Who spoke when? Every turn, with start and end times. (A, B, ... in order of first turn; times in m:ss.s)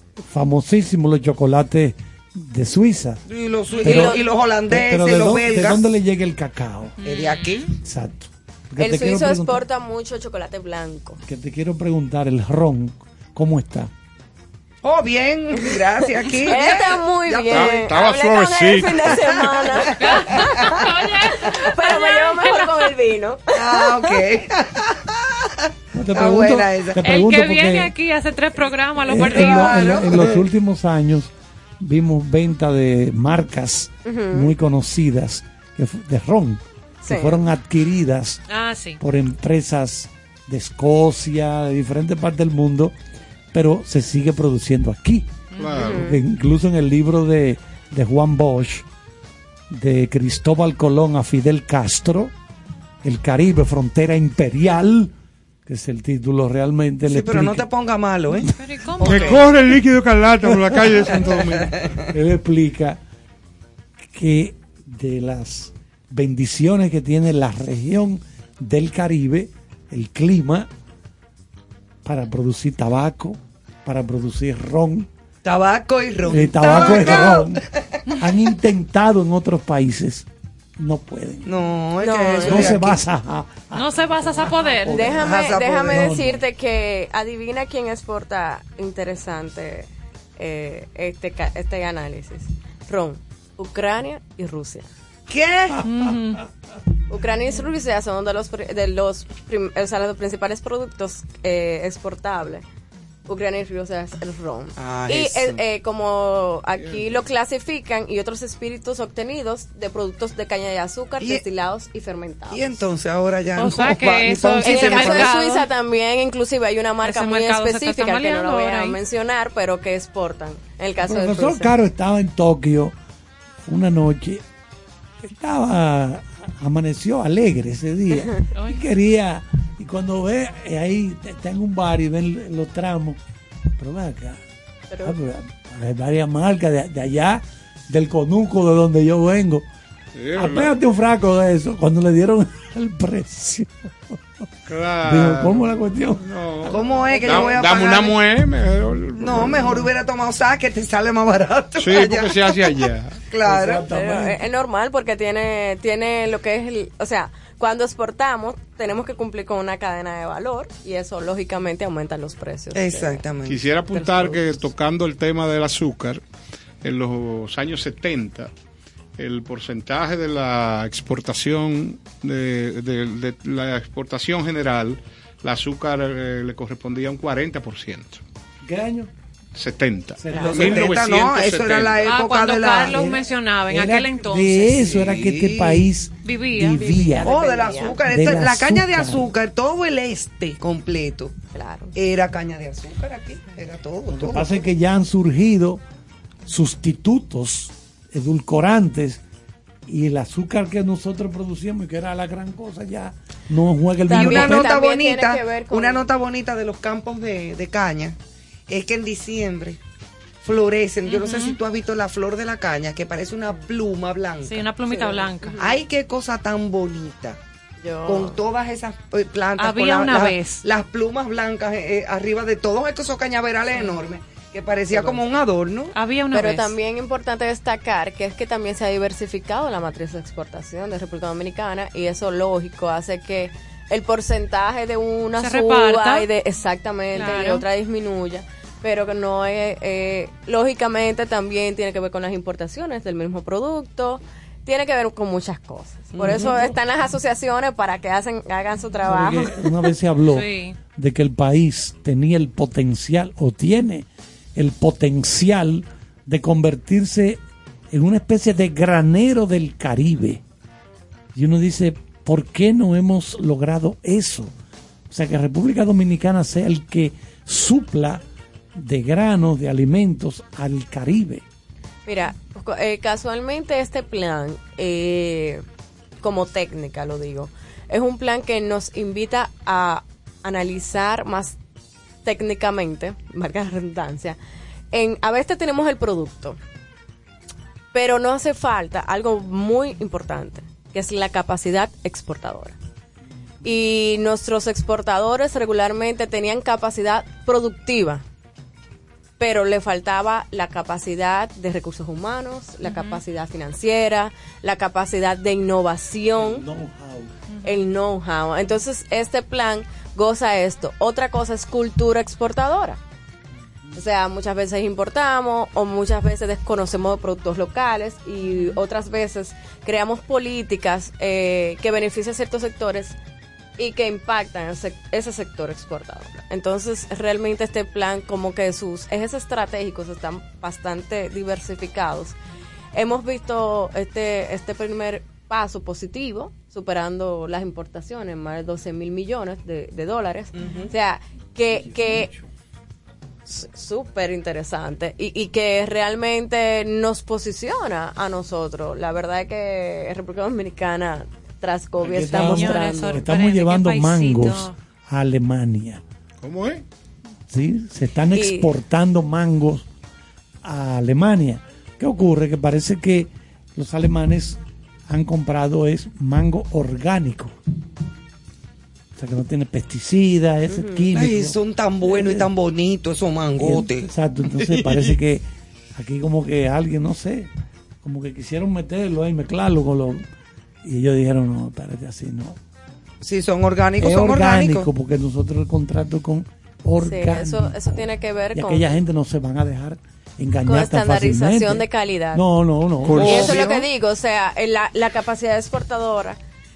0:00.3-0:03.2 A
0:03.3-0:05.8 B
0:03.8-0:07.0 A
0:03.8-0:04.3 C
0:07.0-0:07.7 D
0:07.0-0:07.8 B
0:07.8-0:09.6 A
0:08.8-0:11.2 C
0:11.2-0:13.9 A
0:14.8-0:17.8 B
0:16.4-0:24.2 C
0:17.5-0:19.5 E
0:19.2-0:20.2 B
0:20.0-0:22.9 D
0:23.6-0:25.5 B
0:25.9-0:27.9 A
0:26.1-0:27.0 B
0:27.0-0:30.0 D
0:29.0-0:38.4 A
0:29.3-0:30.5 B
0:34.0-0:34.5 C
0:37.0-0:37.4 C
0:38.5-0:39.0 D
0:39.0-0:43.0 A
0:43.5-0:48.9 A
0:45.5-0:46.0 D
0:45.6-0:46.1 E
0:45.8-0:46.2 C
0:49.7-0:52.3 A
0:53.0-0:55.1 A
0:55.7-0:57.7 A
0:57.1-0:59.5 B
0:58.5-0:59.5 D
0:59.0-1:01.8 E
1:00.4-1:01.4 A
1:01.2-1:02.0 B
1:02.1-1:03.0 A
1:04.1-1:10.7 A
1:12.0-1:15.1 A
1:15.4-1:17.7 B
1:16.2-1:17.6 A
1:18.2-1:21.5 A
1:21.5-1:23.0 B
1:22.0-1:22.8 D
1:22.4-1:26.4 A
1:23.7-1:25.2 D
1:24.9-1:34.9 C
1:25.1-1:26.2 B
1:35.3-1:35.9 B
1:35.8-1:36.4 D
1:37.1-1:42.6 C
1:43.3-1:52.6 C
1:44.8-1:45.6 B
1:52.5-1:55.3 B
1:53.6-1:55.7 D
1:54.6-2:01.8 C
1:57.0-1:59.0 D
2:01.0-2:03.0 A
2:03.7-2:04.4 A
2:05.2-2:13.2 A
2:08.5-2:08.8 D
2:13.8-2:14.4 A
2:14.9-2:15.2 C
2:15.0-2:19.7 A
2:20.2-2:20.7 E
2:20.3-2:24.2 A
2:24.7-2:29.9 E
2:25.0-2:27.5 A
2:26.6-2:28.2 B
2:29.2-2:33.9 B
2:31.8-2:33.2 E
2:33.4-2:34.4 A
2:33.9-2:43.2 C
2:42.8-2:43.6 B
2:43.5-2:46.2 E
2:46.8-2:48.5 E
2:49.2-2:58.2 E
2:58.6-2:59.1 A
2:59.6-3:02.1 E
3:00.2-3:00.9 A
3:00.4-3:03.0 B
3:02.0-3:05.0 D
3:02.9-3:09.3 A
3:04.8-3:05.8 B
3:06.2-3:07.2 D
3:06.8-3:08.0 C
3:07.2-3:11.4 B
3:11.6-3:11.9 C
3:12.0-3:14.6 B
3:14.1-3:15.8 A
3:16.5-3:19.2 A
3:19.9-3:24.8 A
3:24.1-3:26.0 C
3:24.1-3:28.2 B
3:28.7-3:29.8 B
3:30.4-3:34.6 B
3:31.1-3:31.6 D
3:34.4-3:35.6 D
3:34.9-3:35.8 C
3:35.6-3:37.4 B
3:37.8-3:38.4 C
3:38.1-3:45.9 B
3:39.6-3:40.6 D
3:44.9-3:45.2 C
3:45.9-3:46.7 D
3:46.3-4:09.6 C
3:55.4-3:56.3 D
3:57.1-3:57.6 D
4:06.1-4:06.7 B
4:09.0-4:17.4 A
4:10.3-4:10.8 D
4:17.9-4:20.4 A
4:21.4-4:24.5 A
4:25.1-4:28.2 A
4:28.8-4:31.4 A
4:32.1-4:35.6 C
4:36.2-4:41.6 C
4:42.2-4:44.4 C
4:44.9-4:46.6 C
4:47.9-4:52.8 C
4:53.6-4:58.2 C
4:59.4-5:06.6 C
5:02.8-5:03.2 D
5:06.4-5:07.3 A
5:07.5-5:07.8 D
5:07.6-5:13.0 C
5:14.0-5:23.2 C
5:23.8-5:32.4 C
5:32.9-5:42.3 C
5:40.5-5:40.9 B
5:41.7-5:42.5 A
5:43.5-5:53.2 C
5:52.0-5:56.0 A
5:52.3-5:54.8 D
5:56.4-5:56.8 E
5:57.5-5:59.9 A
5:58.3-5:58.7 C
6:00.6-6:07.6 A
6:09.2-6:12.5 A
6:10.8-6:11.1 C
6:11.1-6:14.1 B
6:13.6-6:17.5 A
6:18.0-6:20.3 A
6:20.8-6:22.6 A
6:23.2-6:24.9 B
6:24.0-6:33.6 A
6:27.0-6:29.0 C
6:30.6-6:32.4 C
6:33.0-6:33.5 E
6:33.2-6:33.9 B
6:33.2-6:36.4 C